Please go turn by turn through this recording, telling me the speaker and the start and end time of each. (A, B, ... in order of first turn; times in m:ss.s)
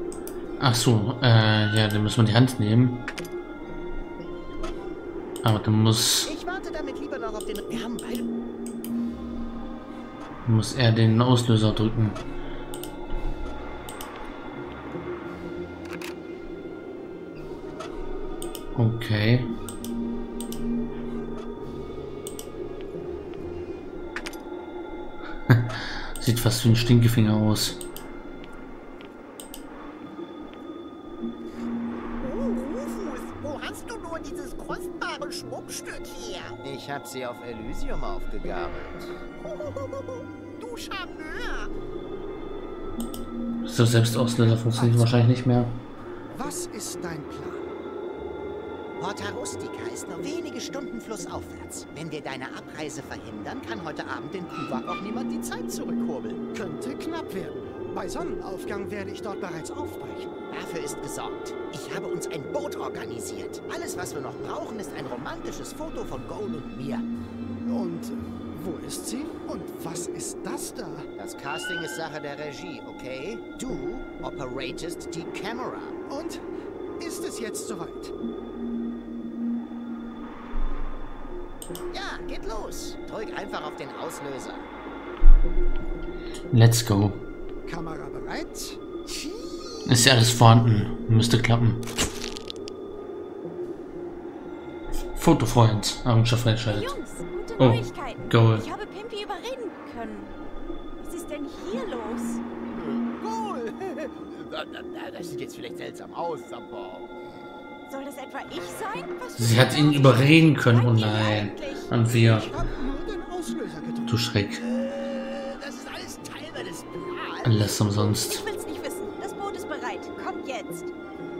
0:00.6-0:03.0 A
0:05.4-0:06.3 A
0:06.2-0:08.3 B
0:10.4-0:12.2 A
0:18.7-0:19.5 A
0:25.5-0:27.8 A
0:32.2-0:41.7 B
0:43.6-0:45.8 A
0:44.6-0:45.2 C
0:46.3-0:47.7 C
0:49.0-0:56.4 B
0:56.5-1:00.3 C
1:00.5-1:07.1 B
1:07.6-1:11.1 C
1:11.2-1:15.9 B
1:16.1-1:16.4 C
1:17.0-1:18.1 C
1:21.9-1:24.6 B
1:26.5-1:27.2 A
1:27.6-1:30.1 C
1:29.9-1:31.8 A
1:35.1-1:36.9 A
1:36.6-1:40.4 D
1:37.6-1:38.7 A
1:41.0-1:42.4 D
1:42.7-1:47.2 B
1:47.9-1:52.3 D
1:49.4-1:52.5 A
1:52.3-1:54.2 C
1:54.1-1:54.6 A
1:54.6-1:57.6 B
1:57.4-1:58.4 A
1:58.2-2:00.9 D